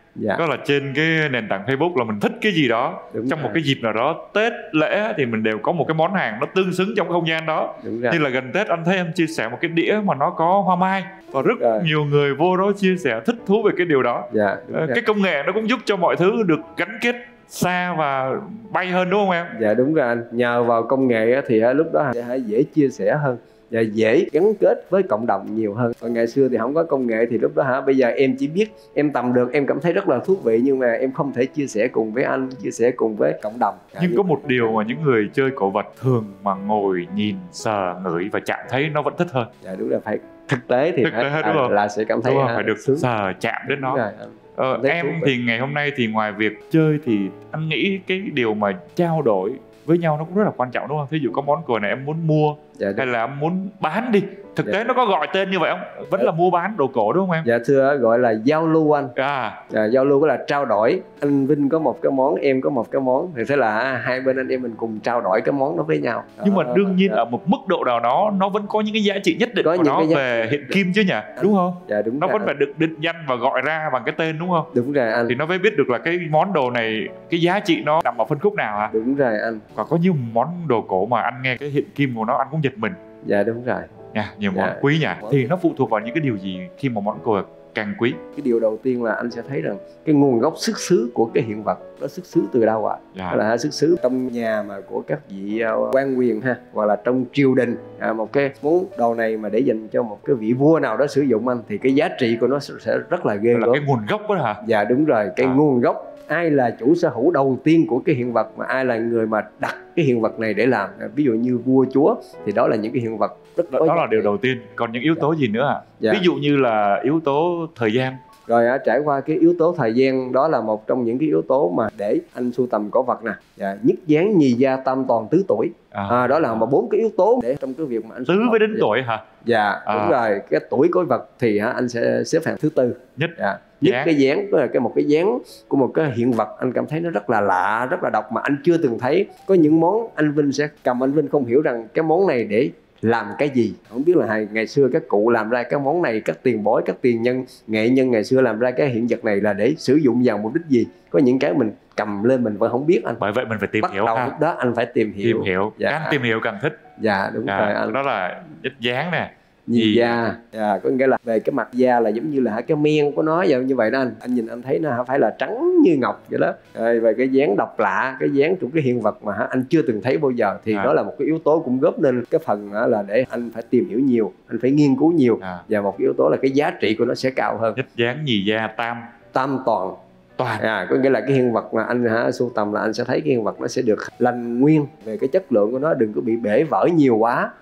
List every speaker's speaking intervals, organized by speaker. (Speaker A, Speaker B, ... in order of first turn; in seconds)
Speaker A: 0.2-0.4, 3.1-3.6, 7.8-8.2, 11.4-11.9, 14.3-15.0, 19.5-34.8, 39.6-43.1, 43.7-45.3, 52.8-53.1, 57.4-59.1, 59.7-67.2, 69.6-70.8, 71.4-72.5, 74.7-75.3, 78.9-79.6, 83.2-83.9, 84.5-85.5, 88.3-103.8, 104.6-114.3, 118.5-128.9, 129.4-153.2, 153.8-156.2, 157.0-158.0, 159.7-177.8, 179.3-180.0, 180.6-187.5
Speaker B: 0.4-19.6, 34.0-39.5, 41.0-44.0, 44.6-57.5, 59.2-59.6, 66.4-74.7, 75.3-78.9, 79.8-83.0, 84.1-88.2, 93.2-93.4, 103.5-104.6, 113.7-118.2, 125.9-126.7, 128.3-129.2, 129.9-130.2, 133.2-134.1, 153.2-154.4, 155.2-156.8, 157.5-160.2, 177.8-179.0, 180.4-180.7